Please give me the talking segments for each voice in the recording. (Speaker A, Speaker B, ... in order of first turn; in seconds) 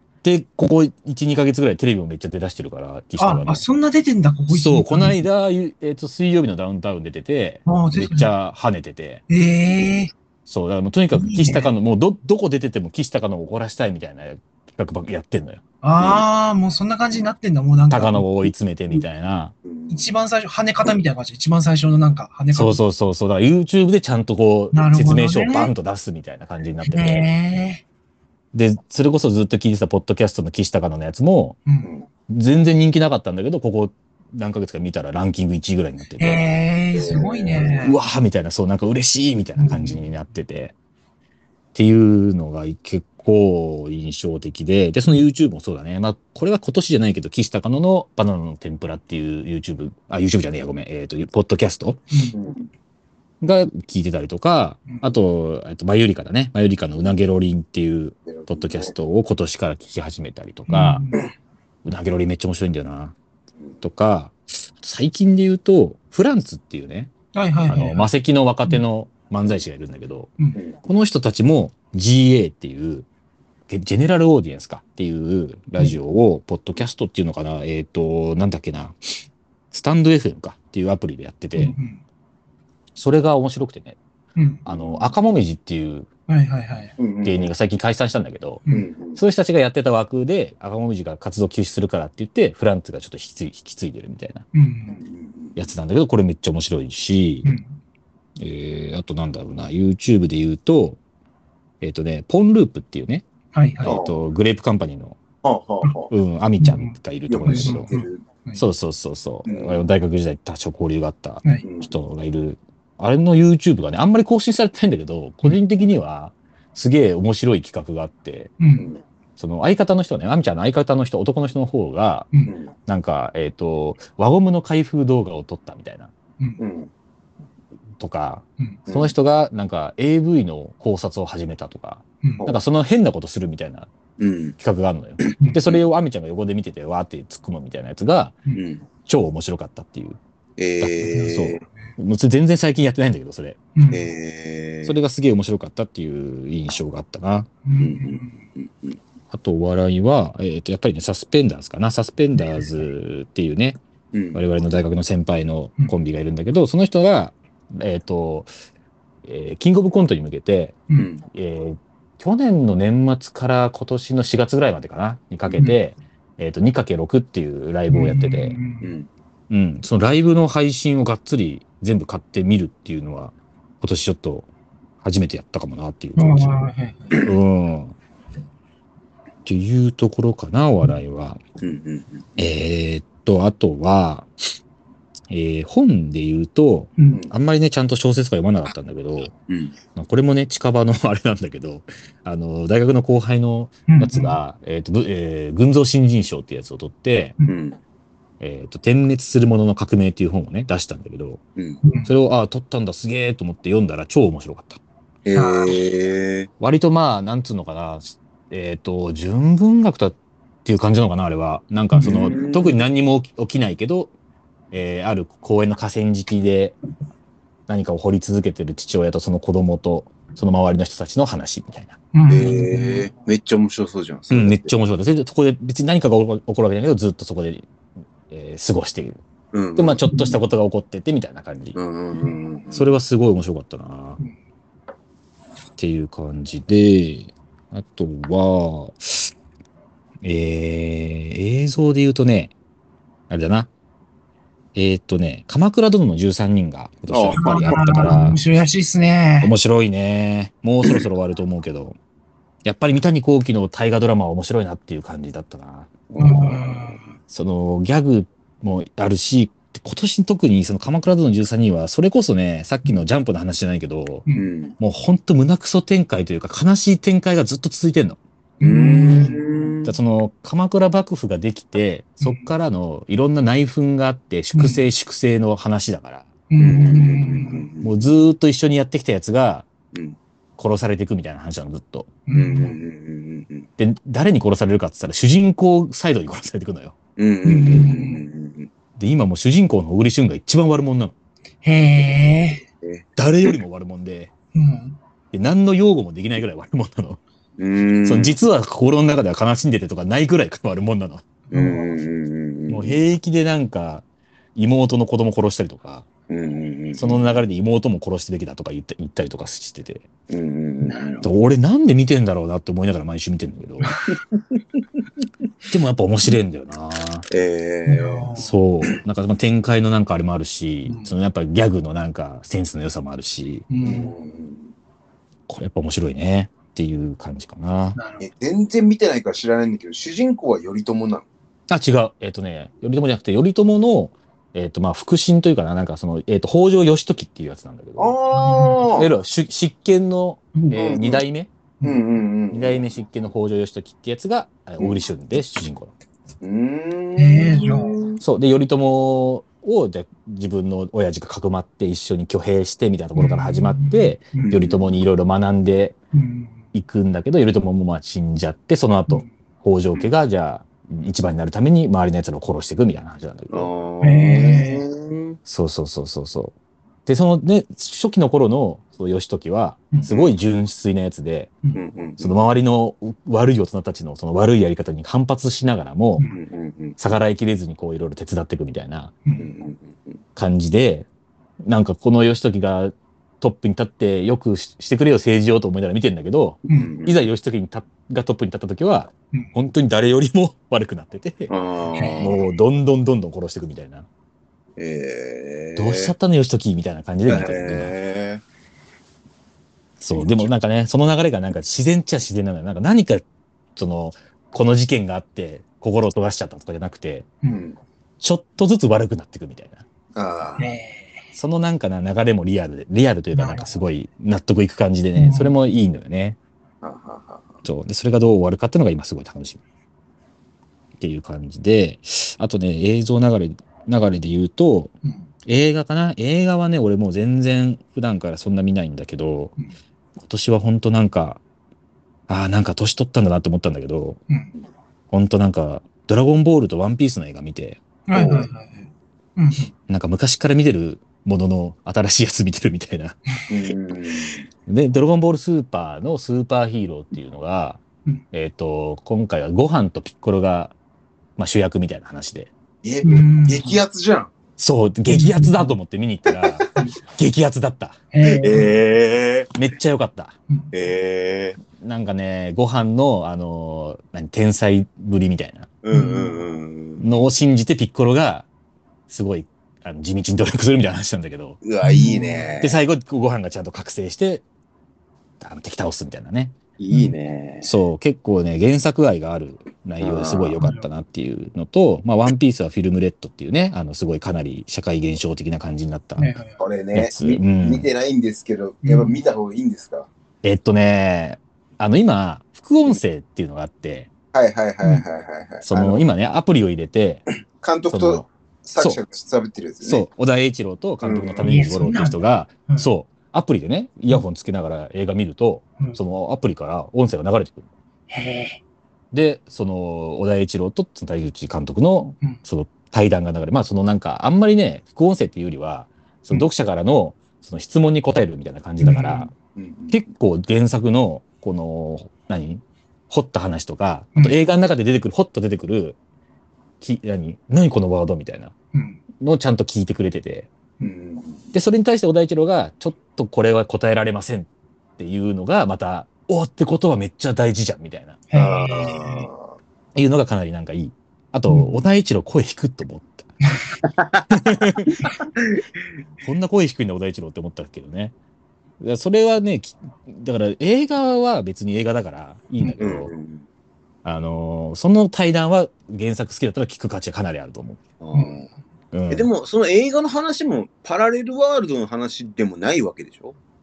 Speaker A: 0.2-3.6, 4.5-9.2, 10.5-15.6, 17.9-19.5, 22.5-27.3, 28.5-31.6, 32.3-36.4, 37.6-40.7, 41.7-52.0, 53.4-61.0, 61.8-63.1, 63.8-67.1, 67.7-70.3, 70.8-73.1, 73.7-79.0, 79.7-81.7, 83.0-84.0, 84.6-86.1, 87.2-88.6, 89.1-94.4, 95.5-97.5, 98.4-101.0, 101.8-103.2, 103.8-105.2, 106.1-107.9, 108.5-118.5, 119.4-122.3, 122.8-126.1, 128.0-133.9, 134.6-138.3, 139.1-140.2, 140.8-143.6, 144.8-147.5, 149.3-153.8, 154.3-158.5, 159.2-168.6, 169.5-174.5, 175.0-176.6, 177.2-178.0, 179.4-181.4, 182.4-184.3, 185.3-189.3, 189.9-197.3, 198.4-201.4, 202.0-204.8, 206.6-214.1, 214.7-216.8, 217.7-222.0, 224.3-227.7, 228.3-229.2, 229.8-231.8, 232.7-234.2, 235.8-239.3, 240.2-242.5, 243.3-243.7, 244.7-248.4, 249.4-252.0, 252.6-255.9, 257.3-264.2, 264.8-268.2, 269.8-276.3, 277.8-279.7, 280.6-282.1, 283.8-286.9, 289.0-291.1, 293.2-294.3, 295.3-297.2, 298.0-301.2, 302.7-306.1, 306.9-310.1, 311.2-313.9, 315.7-317.3, 318.4-323.7, 325.5-328.0, 331.7-338.1, 338.9-341.5, 342.5-345.9, 348.2-356.0, 356.7-363.7, 365.4-366.5, 367.1-371.5, 372.2-376.2, 377.0-379.1, 380.3-381.1, 381.6-391.5, 392.2-394.1, 395.8-397.9, 400.0-407.3, 408.2-409.8, 411.3-416.4, 417.6-419.6, 421.0-424.9, 425.4-429.6, 430.2-431.4, 432.3-434.2, 435.1-437.8, 439.9-443.2, 444.6-450.7, 451.4-452.5, 454.6-458.0, 459.5-460.3, 461.8-465.7, 467.0-468.5, 469.1-471.6, 472.6-474.4, 475.4-476.5, 477.6-486.3, 486.9-487.9, 490.4-494.1, 495.6-497.2, 497.9-499.0, 499.8-507.7, 509.1-519.3, 519.9-526.0, 526.8-528.5, 529.2-530.5, 531.5-538.2, 539.9-543.3, 544.3-545.0, 546.2-548.1, 548.8-553.1, 554.0-557.8, 558.9-559.3
Speaker B: 3.2-5.2, 7.7-8.3, 9.3-10.1, 11.1-11.7, 15.8-19.0, 19.9-22.8, 24.7-25.7, 26.8-27.8, 31.6-31.9, 36.2-38.0, 39.6-40.0, 52.1-52.4, 54.9-55.1, 60.7-61.2, 67.3-68.1, 81.5-82.0, 84.3-84.6, 86.3-86.9, 94.5-95.0, 97.4-97.8, 103.5-104.0, 106.6-108.6, 118.6-118.9, 141.1-141.5, 143.7-144.0, 147.6-148.4, 152.4-152.7, 167.9-168.9, 176.2-177.1, 187.0-187.2, 193.9-194.4, 201.8-202.1, 205.3-205.8, 222.1-223.1, 230.1-230.4, 247.4-249.5, 256.2-257.0, 268.6-269.4, 272.2-272.5, 274.5-274.8, 276.5-277.6, 282.3-282.7, 287.4-288.2, 291.6-292.6, 294.5-295.0, 301.5-301.9, 317.9-318.5, 320.8-321.1, 323.7-324.1, 327.9-328.3, 338.3-338.8, 340.5-341.0, 347.2-347.9, 353.1-354.5, 356.1-356.6, 364.0-364.8, 379.2-379.5, 392.0-392.3, 410.6-411.2, 413.3-413.7, 415.1-415.5, 438.1-439.7, 453.0-453.8, 455.1-455.7, 458.1-458.8, 465.9-466.4, 471.8-472.5, 480.6-480.9, 486.2-486.6, 488.8-489.2, 501.4-502.9, 508.1-508.6, 518.8-519.3, 528.7-529.0, 538.3-539.3, 541.5-541.8, 558.1-558.4
Speaker C: 19.6-20.1, 31.8-32.1, 36.9-37.9, 52.3-52.7, 58.3-58.9, 84.7-85.1, 87.0-87.5, 88.7-89.2, 94.9-95.7, 103.8-104.2, 105.4-106.1, 107.3-108.2, 109.5-109.8, 111.6-111.9, 118.8-119.0, 122.5-122.7, 126.6-126.9, 128.9-129.1, 134.2-134.6, 135.2-135.8, 138.5-138.8, 140.6-141.6, 143.9-144.9, 147.8-149.0, 154.1-154.4, 160.9-161.2, 168.8-169.1, 181.6-182.5, 189.5-189.7, 197.4-197.8, 201.6-201.8, 205.2-206.5, 212.0-212.8, 222.3-224.7, 229.5-230.0, 231.7-232.9, 247.1-248.2, 256.1-257.0, 264.3-264.8, 268.6-269.9, 276.6-278.1, 279.9-280.2, 282.3-283.7, 287.2-288.7, 292.8-293.5, 297.6-298.4, 301.5-303.0, 306.3-307.4, 310.3-311.3, 314.3-314.8, 317.3-318.3, 323.8-324.7, 328.2-331.2, 338.0-339.1, 340.7-341.2, 341.8-342.8, 346.4-348.2, 354.4-354.9, 363.5-365.4, 370.1-370.3, 371.7-372.4, 376.3-377.0, 379.4-380.2, 386.7-387.2, 391.5-392.4, 394.8-396.1, 397.3-398.4, 400.1-400.5, 407.4-407.8, 410.1-410.7, 416.8-417.5, 438.1-438.5, 443.5-444.4, 452.8-454.3, 458.2-459.5, 460.7-461.6, 465.8-467.0, 471.6-472.8, 476.8-477.7, 480.0-480.6, 486.6-490.1, 494.3-496.0, 497.5-500.1, 501.0-501.7, 519.5-520.0, 530.8-531.4, 538.3-539.5, 543.8-544.3, 545.2-545.6, 552.8-553.4, 558.0-558.5, 559.1-563.4